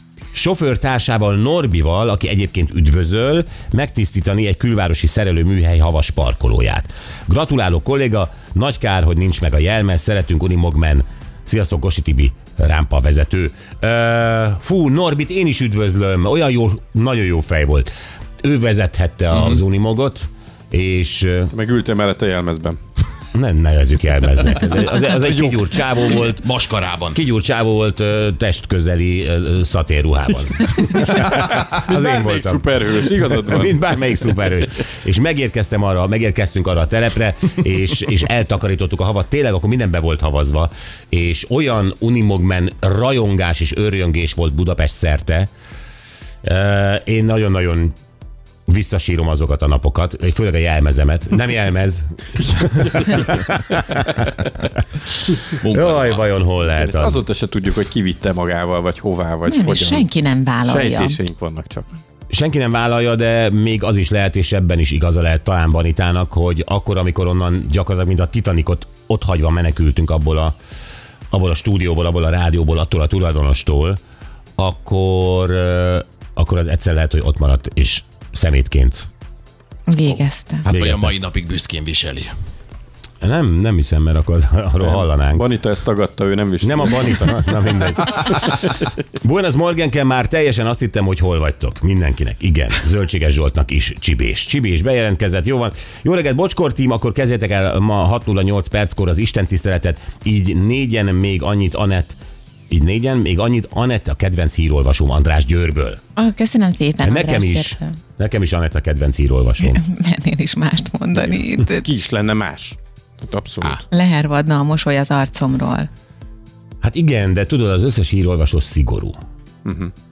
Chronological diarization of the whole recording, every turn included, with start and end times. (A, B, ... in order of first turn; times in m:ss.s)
0:00.3-0:21.5 A
0:21.5-0:22.8 B
0:23.3-0:26.5 A
0:25.1-0:25.6 B
0:26.2-0:27.2 C
0:27.1-0:45.5 A
0:31.1-0:34.0 B
0:46.4-0:48.0 A
0:48.7-0:54.5 A
0:55.6-0:56.2 C
0:55.6-0:57.2 A
0:56.7-1:00.1 B
0:59.5-1:01.2 D
1:00.6-1:02.0 B
1:02.3-1:10.6 A
1:11.3-1:14.0 A
1:14.6-1:19.1 A
1:19.9-1:20.7 D
1:20.6-1:22.3 C
1:20.7-1:21.1 A
1:23.2-1:25.5 A
1:24.8-1:27.3 B
1:26.6-1:28.6 A
1:29.2-1:46.0 A
1:46.2-1:47.9 D
1:47.0-1:49.8 A
1:49.6-1:51.9 D
1:51.7-1:53.8 B
1:53.9-1:55.9 D
1:56.8-1:59.2 A
1:59.6-1:59.9 B